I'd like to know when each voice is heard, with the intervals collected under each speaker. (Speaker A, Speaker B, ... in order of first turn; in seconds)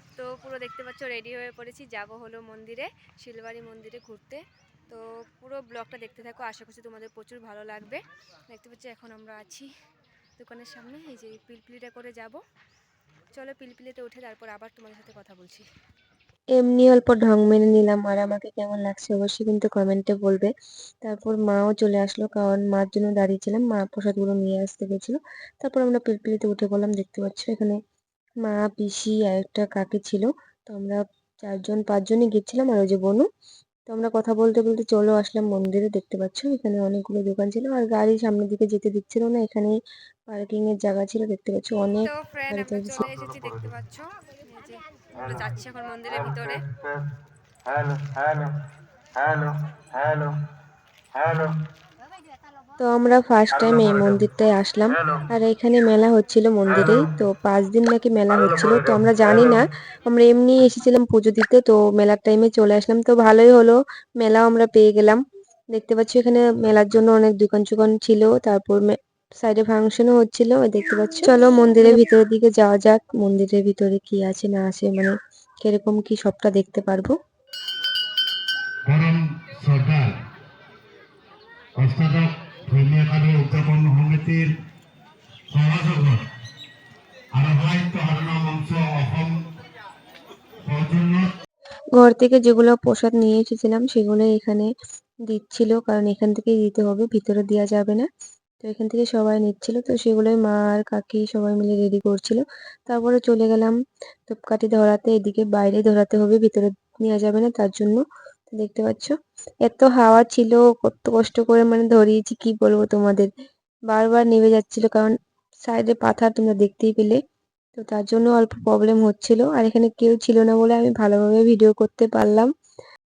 Speaker A: 0.2-9.7, 10.4-12.4, 13.3-15.7, 42.0-46.6
Speaker B: 16.6-20.5, 21.0-27.8, 28.4-33.2, 33.9-39.7, 40.3-43.0, 52.8-65.2, 65.7-77.1, 92.0-94.7, 95.3-98.1, 98.6-113.3, 113.9-115.1, 115.6-117.2, 117.8-122.5
Speaker C: 43.0-43.8, 45.2-45.5, 46.1-47.1, 47.7-48.5, 49.2-50.3, 51.1-51.5, 53.5-54.2, 55.0-55.2, 56.8-57.1, 58.5-59.6, 78.9-80.1, 81.8-84.5, 85.5-86.2, 87.3-89.4, 90.6-91.3